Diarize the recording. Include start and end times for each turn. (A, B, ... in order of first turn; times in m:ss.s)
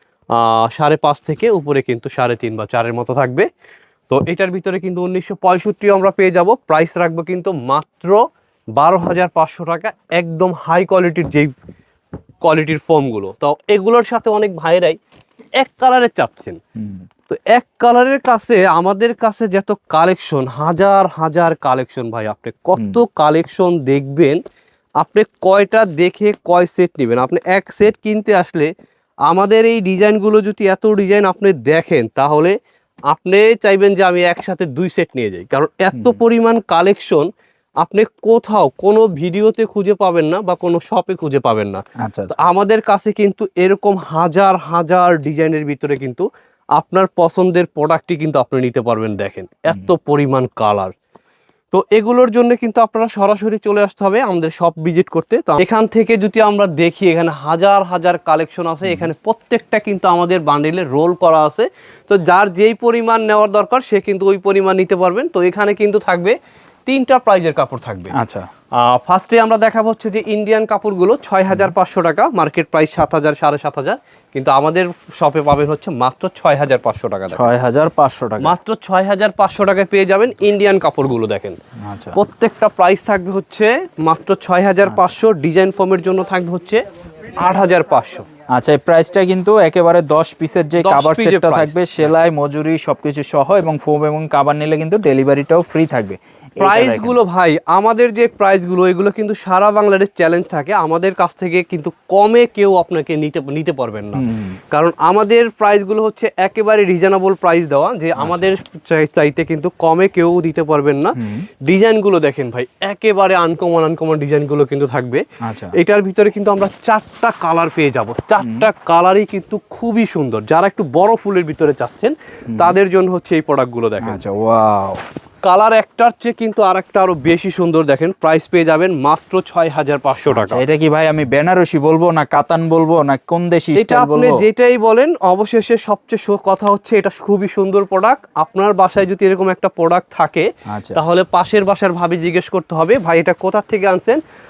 0:00.3-0:03.4 A
0:04.1-0:08.2 A
0:08.8-0:11.5 A
0:12.4-0:15.0 A
0:15.6-0:16.6 A
0:16.8-0:17.0 B
0:17.3-0:24.4 A
0:25.0-0:28.7 A
0:29.3-0:32.6 A
0:33.1-0:37.3 A
0:37.8-0:46.2 A
0:42.0-0:42.4 B
0:46.8-0:50.9 A
0:51.7-1:06.3 A
1:06.9-1:08.1 A
1:08.1-1:08.5 B
1:08.8-1:17.5 A
1:17.3-1:18.5 B
1:18.4-1:21.6 A
1:21.8-1:22.2 B
1:22.1-1:26.8 A
1:24.8-1:25.1 B
1:27.4-1:28.2 A
1:28.5-1:37.2 B
1:30.8-1:31.8 A
1:36.6-1:55.2 A
1:44.1-1:44.6 B
1:48.2-1:48.5 B
1:51.2-1:51.4 B
1:55.4-1:55.7 B
1:55.7-2:04.2 A
1:58.4-1:58.7 B
2:02.5-2:02.8 B
2:04.0-2:05.0 B
2:05.4-2:10.6 A
2:10.3-2:14.4 B
2:13.7-2:24.2 A
2:20.7-2:21.0 B